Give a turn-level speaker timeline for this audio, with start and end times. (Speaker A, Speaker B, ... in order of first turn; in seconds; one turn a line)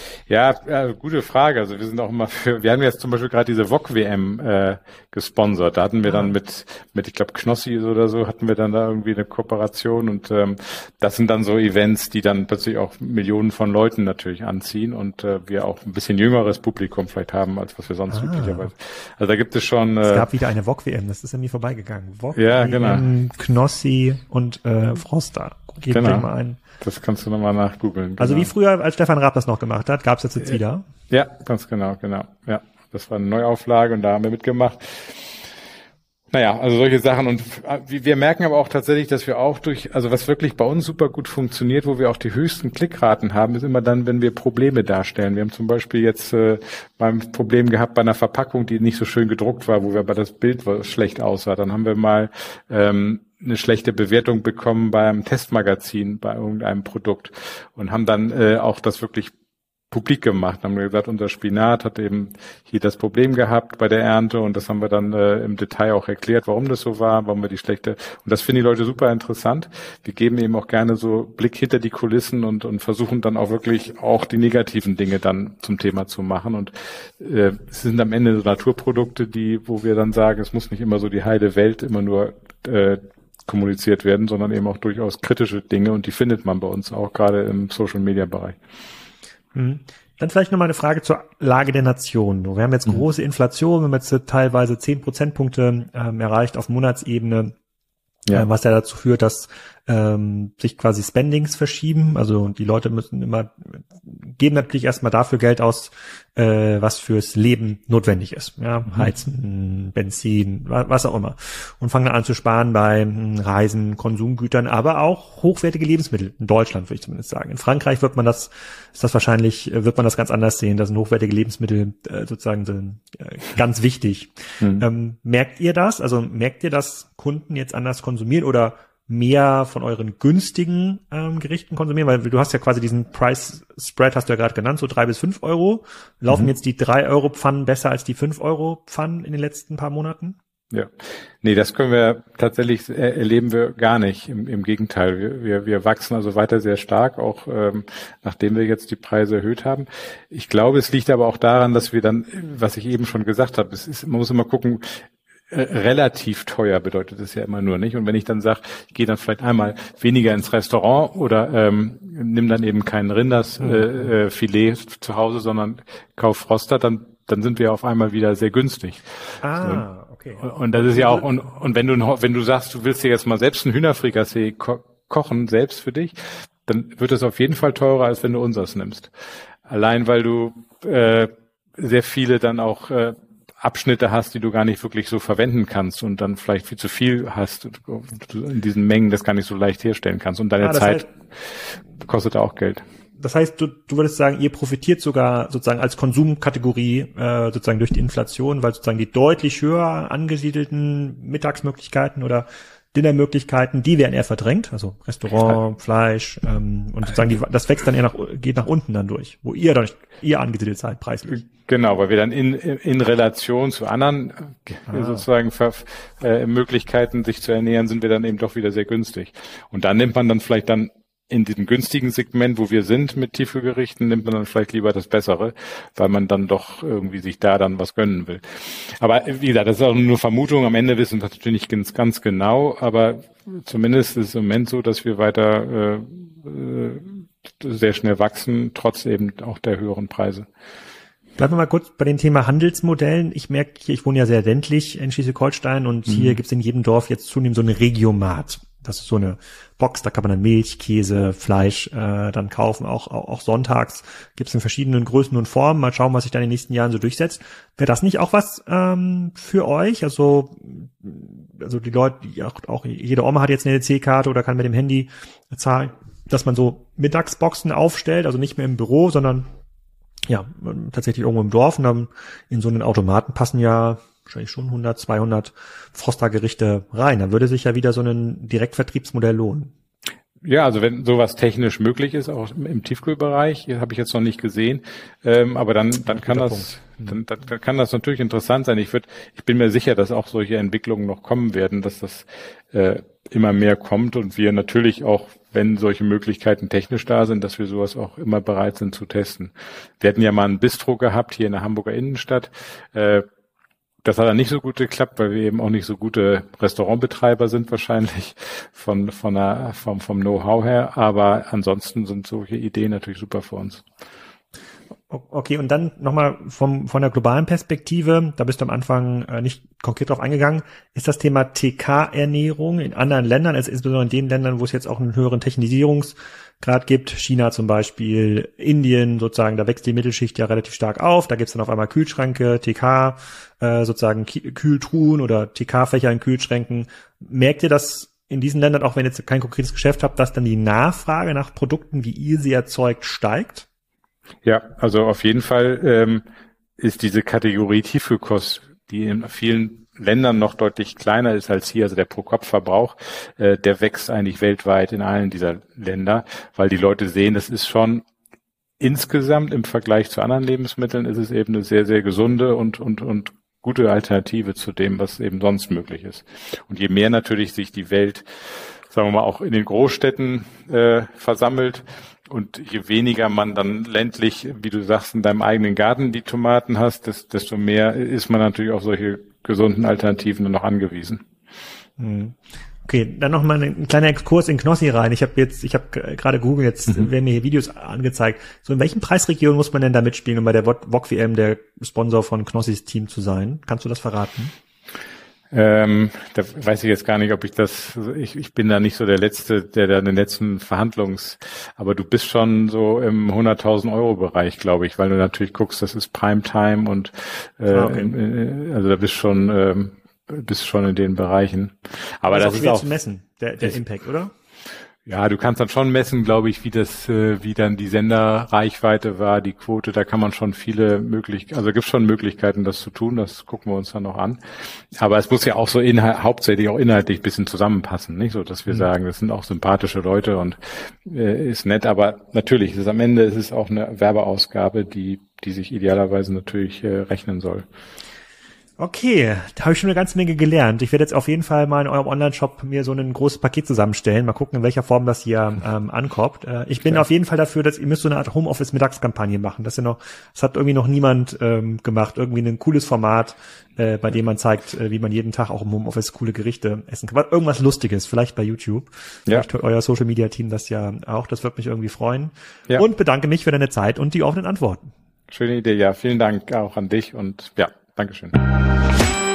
Speaker A: 0.1-20.3
Speaker B: 18.1-18.7
Speaker B: 20.1-26.6
Speaker A: 22.4-23.1
Speaker A: 25.9-26.3
Speaker A: 26.8-28.5
Speaker B: 28.2-30.8
Speaker A: 31.1-35.4
Speaker A: 36.3-59.3
Speaker A: 59.9-88.6
Speaker B: 89.5-97.5
Speaker B: 98.3-140.4
Speaker A: 140.7-169.0
Speaker B: 163.6-163.9
Speaker B: 169.4-171.3
Speaker A: 169.6-169.8
Speaker A: 170.4-179.1
Speaker A: 179.7-192.8
Speaker B: 190.6-191.1
Speaker B: 193.2-211.5
Speaker A: 211.4-240.5
Speaker B: 214.9-215.2
Speaker B: 241.4-269.5
Speaker A: 246.1-246.3
Speaker B: 270.3-279.7
Speaker A: 280.4-303.3
Speaker B: 286.2-287.1
Speaker A: 304.0-313.9
Speaker B: 315.1-343.7
Speaker A: 344.4-346.2
Speaker A: 346.8-358.1
Speaker A: 358.8-368.2
Speaker A: 368.9-381.2
Speaker B: 382.0-394.5
Speaker A: 395.5-412.9
Speaker B: 407.7-408.2
Speaker B: 412.3-414.3
Speaker A: 415.1-437.7
Speaker B: 438.8-464.9
Speaker A: 465.3-468.4